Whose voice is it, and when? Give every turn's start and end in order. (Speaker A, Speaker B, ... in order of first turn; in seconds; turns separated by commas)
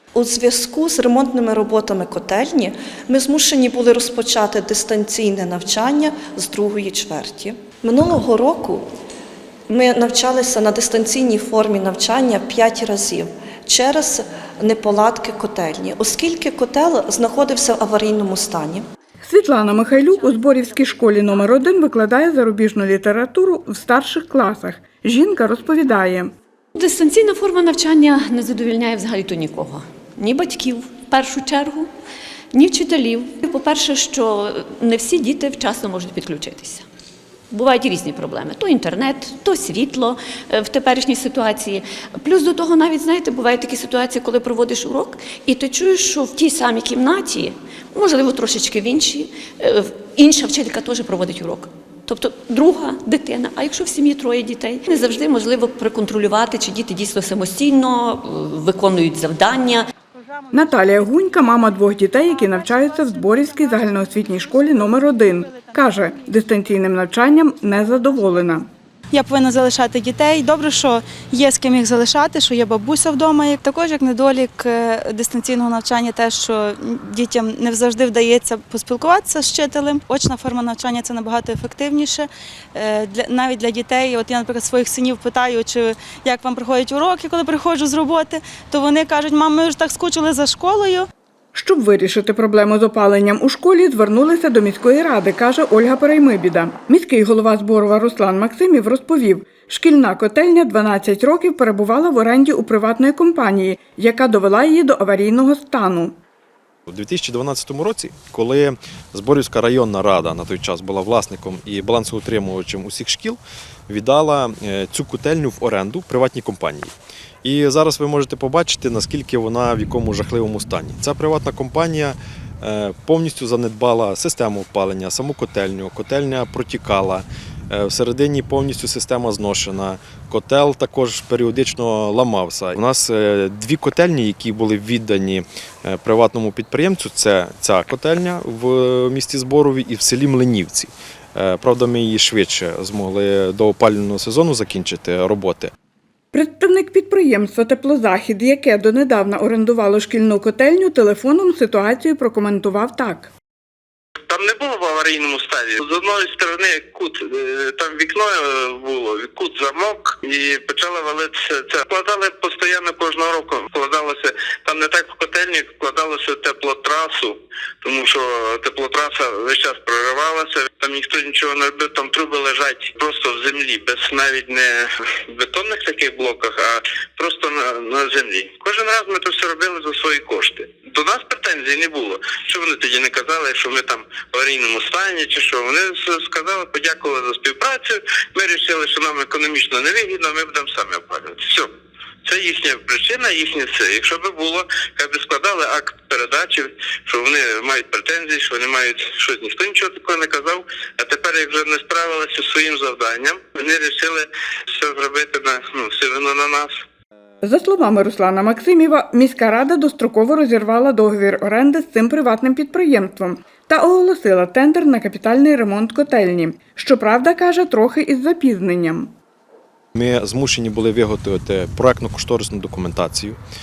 Speaker A: 0.1-8.8, Speaker A: 9.7-18.8, Speaker B: 19.2-26.3, Speaker C: 26.8-31.9, Speaker C: 32.5-36.8, Speaker C: 37.5-59.9, Speaker B: 60.5-68.7, Speaker D: 64.8-65.0, Speaker D: 69.1-91.1, Speaker B: 91.5-106.2, Speaker E: 106.9-116.9, Speaker E: 117.4-145.7, Speaker B: 146.3-153.3, Speaker F: 154.2-191.7, Speaker F: 192.2-206.7, Speaker B: 207.4-219.1, Speaker E: 219.9-223.4